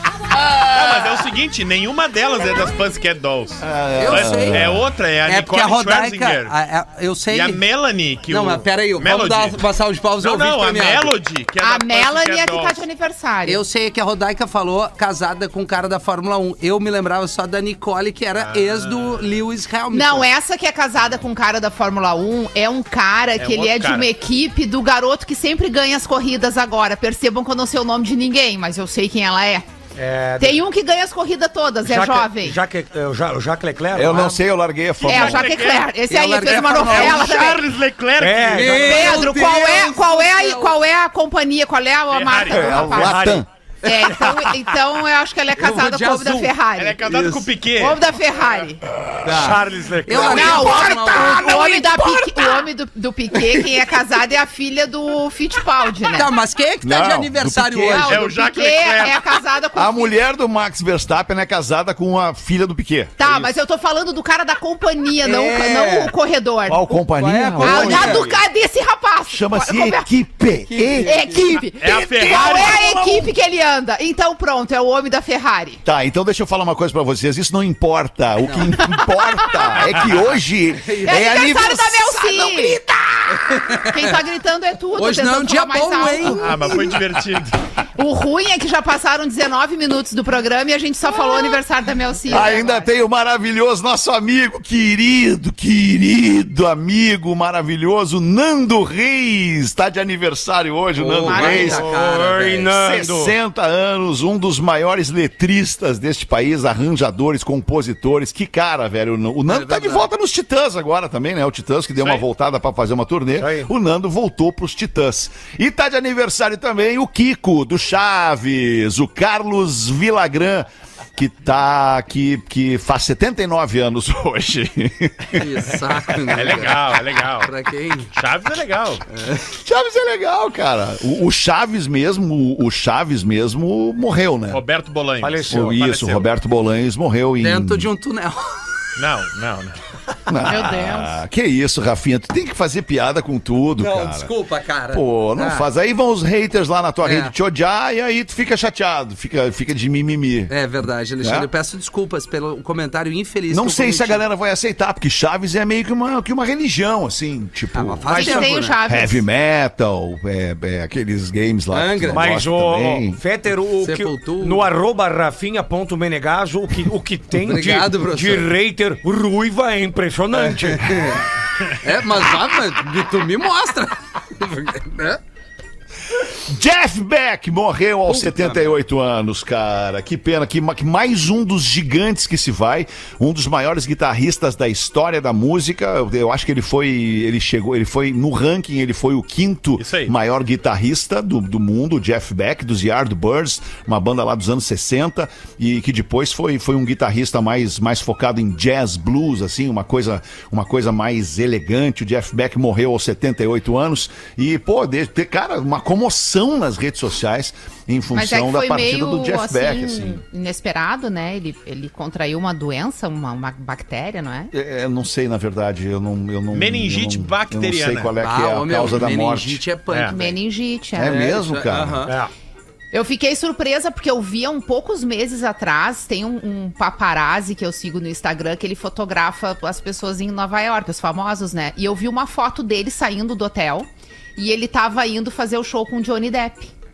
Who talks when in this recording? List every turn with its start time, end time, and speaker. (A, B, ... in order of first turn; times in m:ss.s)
0:00.4-0:06.5 A
0:03.6-0:04.8 B
0:04.0-0:07.6 C
0:07.3-0:09.6 A
0:08.3-0:11.2 C
0:10.2-0:12.8 A
0:11.6-0:13.6 D
0:13.4-0:20.3 C
0:18.4-0:19.2 A
0:19.9-0:29.6 D
0:23.4-0:24.1 A
0:30.0-0:30.6 E
0:30.4-0:32.6 D
0:31.8-0:34.4 E
0:33.9-0:35.5 B
0:35.0-0:35.9 A
0:35.0-0:37.6 D
0:36.1-0:37.3 C
0:36.9-0:39.2 A
0:38.2-0:39.2 E
0:38.5-0:40.8 C
0:38.6-0:47.1 D
0:42.1-0:42.9 A
0:42.5-0:43.4 B
0:42.9-0:43.4 E
0:45.6-0:46.5 C
0:46.8-0:48.0 A
0:47.0-0:47.5 C
0:47.8-0:48.8 D
0:49.0-0:49.6 B
0:49.2-0:52.6 C
0:49.3-0:50.8 E
0:50.1-0:56.3 D
0:50.2-0:51.6 B
0:53.4-0:53.9 C
0:56.1-0:58.3 C
0:56.8-0:58.2 B
0:57.8-1:00.2 D
0:58.0-0:59.2 A
0:59.7-1:03.2 B
1:03.2-1:06.9 D
1:05.2-1:06.1 C
1:06.7-1:08.4 B
1:07.1-1:08.3 C
1:07.6-1:10.1 D
1:09.3-1:13.3 B
1:10.7-1:11.5 C
1:11.0-1:15.8 D
1:11.8-1:12.9 A
1:15.8-1:22.3 B
1:18.4-1:18.9 C
1:18.8-1:19.7 D
1:20.8-1:21.5 C
1:21.0-1:26.7 D
1:22.2-1:24.2 C
1:24.9-1:26.8 C
1:26.4-1:27.6 A
1:28.0-1:32.9 D
1:32.3-1:41.9 B
1:41.0-1:42.7 C
1:41.3-1:41.8 D
1:41.4-1:43.3 E
1:42.7-2:05.6 B
1:49.5-1:50.1 C
1:52.0-1:52.2 A
1:53.4-1:53.7 E
2:05.3-2:08.1 C
2:06.3-2:07.5 A
2:08.1-2:09.0 A
2:09.1-2:09.5 C
2:09.5-2:14.6 B
2:14.5-2:16.3 A
2:15.2-2:15.8 E
2:15.5-2:17.9 B
2:17.4-2:18.8 C
2:19.0-2:19.8 A
2:20.3-2:24.3 B
2:20.4-2:21.2 D
2:23.8-2:25.7 C
2:24.9-2:30.5 B
2:27.0-2:27.3 C
2:30.5-2:34.2 C
2:31.2-2:31.5 B
2:33.5-2:43.2 B
2:37.7-2:38.8 C
2:38.1-2:39.2 D
2:41.7-2:42.3 C
2:42.1-2:51.2 E
2:43.8-2:44.7 C
2:47.3-2:48.5 C
2:50.3-2:55.2 C
2:56.1-3:30.2 B
2:58.1-2:58.7 C
3:09.8-3:10.1 A
3:28.1-3:34.5 D
3:34.5-3:39.6 B
3:36.5-3:38.1 A
3:38.2-3:40.4 C
3:40.1-3:41.2 D
3:41.0-3:42.1 B
3:41.0-3:42.1 C
3:42.0-3:42.3 E
3:42.9-3:56.7 D